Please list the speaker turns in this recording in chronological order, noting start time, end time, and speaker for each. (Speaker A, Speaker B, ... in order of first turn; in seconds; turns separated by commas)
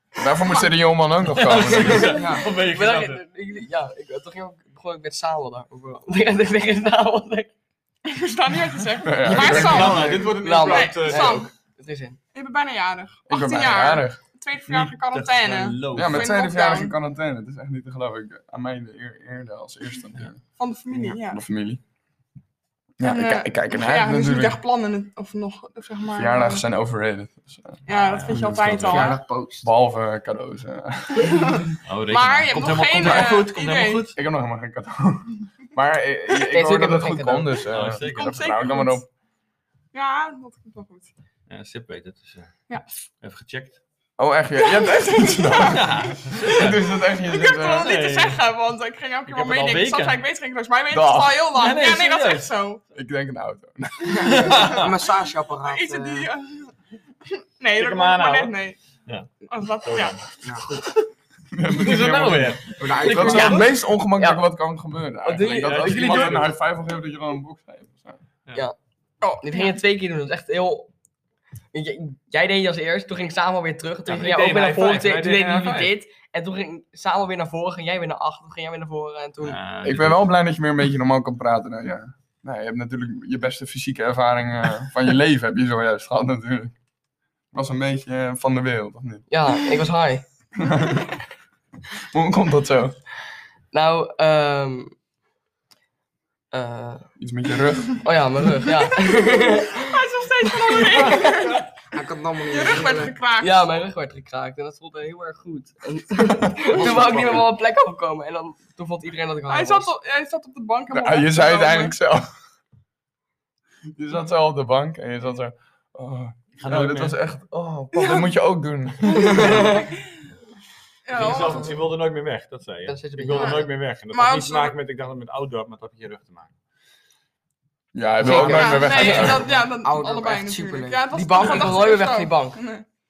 Speaker A: 0.2-2.1, Speaker B: 1.3-3.2, Speaker C: 2.1-2.4, Speaker D: 2.3-7.5, Speaker E: 8.1-11.5, Speaker A: 9.0-10.2, Speaker B: 9.2-11.5, Speaker C: 9.8-10.3, Speaker D: 10.4-12.2, Speaker E: 12.3-16.9, Speaker A: 13.3-14.2, Speaker B: 14.7-16.3, Speaker A: 15.9-20.4, Speaker E: 20.6-21.4, Speaker A: 21.3-21.8, Speaker A: 23.0-24.6, Speaker E: 23.0-26.7, Speaker A: 26.1-28.5, Speaker E: 27.9-29.2, Speaker B: 27.9-29.2, Speaker C: 28.6-29.7, Speaker A: 29.6-31.6, Speaker E: 31.2-34.1, Speaker B: 31.9-34.2, Speaker A: 33.0-33.3, Speaker A: 34.1-39.0, Speaker D: 36.5-37.6, Speaker B: 37.7-38.4, Speaker E: 37.9-39.1, Speaker E: 39.9-41.1, Speaker B: 41.5-42.6, Speaker B: 43.2-43.8, Speaker A: 44.2-47.9, Speaker E: 44.6-52.8, Speaker B: 45.6-46.8, Speaker B: 47.8-48.4, Speaker B: 49.3-50.2, Speaker A: 50.9-51.5, Speaker B: 51.5-52.5, Speaker A: 52.9-54.5, Speaker C: 54.2-56.3, Speaker B: 54.2-54.9, Speaker E: 54.5-54.9, Speaker E: 55.6-58.8, Speaker B: 57.8-61.1, Speaker E: 59.5-60.3, Speaker A: 61.5-68.2, Speaker B: 61.7-63.7, Speaker C: 62.8-63.6, Speaker D: 63.1-64.5, Speaker D: 65.2-66.5, Speaker B: 65.4-66.5, Speaker E: 69.2-69.8, Speaker D: 69.4-70.9, Speaker D: 71.7-79.6, Speaker B: 74.1-75.9, Speaker B: 79.4-80.4, Speaker A: 79.8-86.8, Speaker A: 87.5-89.3, Speaker D: 89.3-90.2, Speaker A: 90.6-91.1, Speaker A: 92.1-93.0, Speaker D: 93.7-94.9, Speaker D: 96.5-97.1, Speaker A: 97.2-98.1, Speaker D: 98.0-100.0, Speaker E: 99.7-101.7, Speaker D: 100.7-101.3, Speaker C: 101.9-103.1, Speaker E: 102.5-103.7, Speaker D: 103.4-109.9, Speaker A: 106.3-107.4, Speaker C: 106.8-107.4, Speaker E: 109.5-112.0, Speaker A: 110.9-112.3, Speaker A: 114.0-119.8, Speaker B: 116.6-117.2, Speaker E: 117.9-118.3, Speaker E: 119.0-120.2, Speaker E: 121.1-121.8, Speaker B: 121.1-126.5, Speaker D: 122.9-123.7, Speaker E: 123.3-124.8, Speaker A: 127.9-129.5, Speaker E: 128.2-132.9, Speaker D: 128.2-129.4, Speaker C: 129.8-131.1, Speaker D: 131.1-132.6